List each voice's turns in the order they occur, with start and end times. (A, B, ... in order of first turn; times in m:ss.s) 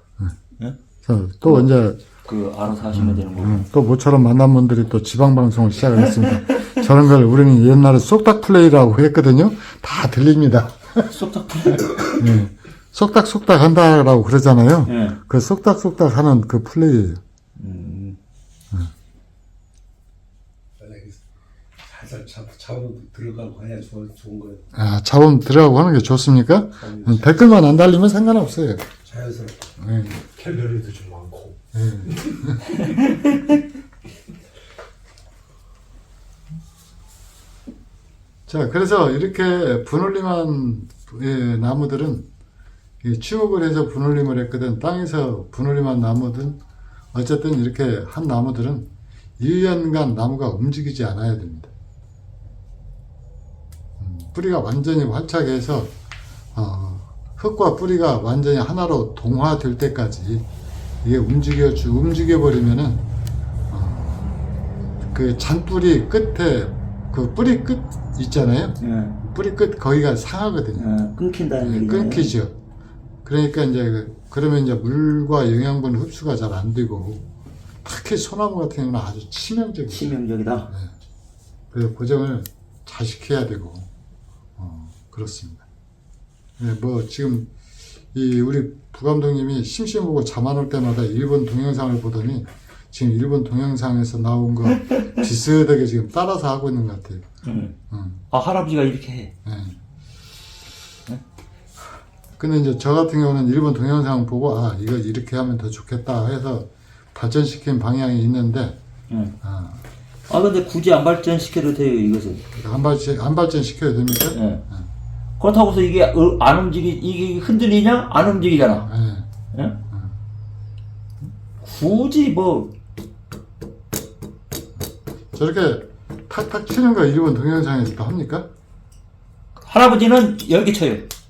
0:01.0-0:02.0 A
0:02.2-0:03.7 B
0:02.9-0:11.1 A
0:06.0-0:06.8 B
0:11.1-0:12.2 B
0:12.1-0:17.2 A
0:14.9-0:15.2 B
0:17.6-0:18.2 B
0:20.8-0:21.2 C
0:21.8-0:24.7 C
0:24.7-0:28.9 A
0:26.8-0:27.2 C
0:29.0-0:31.6 C
0:29.8-0:30.2 A
0:31.7-0:32.8 A
0:38.5-0:42.3 A
0:43.0-0:46.6 A
0:47.1-0:51.7 A
0:54.0-0:55.9 A
0:56.5-1:00.5 A
1:01.0-1:03.0 A
1:03.7-1:04.4 A
1:05.1-1:10.9 A
1:08.8-1:09.2 B
1:10.8-1:12.3 B
1:11.6-1:12.5 A
1:13.2-1:17.2 A
1:17.8-1:20.1 A
1:19.9-1:20.7 B
1:21.7-1:23.9 A
1:24.6-1:25.6 A
1:26.6-1:27.5 A
1:28.1-1:37.3 A
1:34.8-1:35.2 B
1:37.4-1:37.8 B
1:37.9-1:38.2 A
1:38.3-1:39.3 B
1:39.4-1:39.8 A
1:42.4-1:48.8 A
1:49.4-1:49.8 A
1:50.3-1:52.4 B
1:52.5-1:54.9 A
1:54.3-1:54.6 B
1:55.4-1:58.9 B
1:58.8-1:59.3 A
1:59.5-1:59.8 B
2:01.6-2:02.7 B
2:05.3-2:08.5 A
2:09.6-2:11.1 B